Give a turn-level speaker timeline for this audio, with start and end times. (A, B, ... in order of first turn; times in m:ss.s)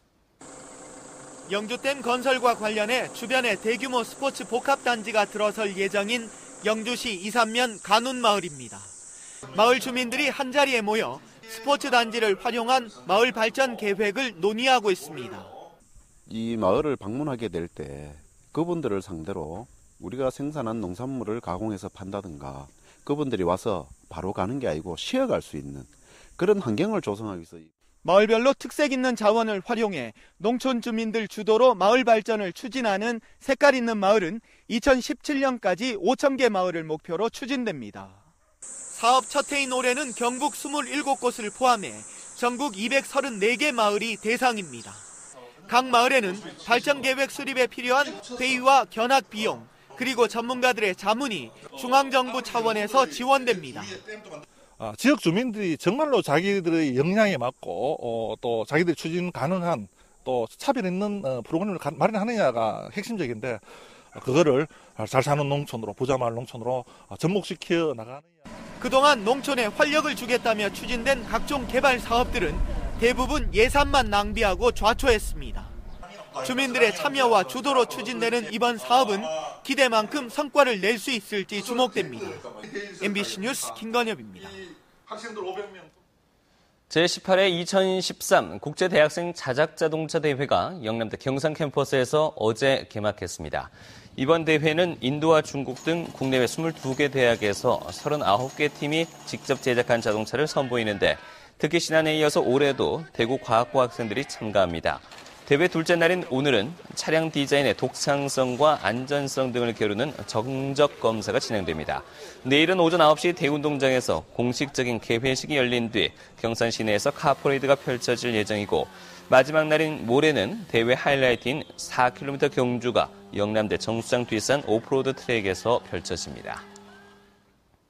0:01.5-0:08.9 A
0:09.5-0:15.5 A
0:16.3-0:27.7 B
0:28.0-0:38.2 A
0:38.9-0:45.0 A
0:45.7-0:54.0 A
0:54.8-1:08.2 C
1:08.8-1:15.7 A
1:16.4-1:24.6 A
1:25.1-1:25.9 C
1:26.9-2:06.6 D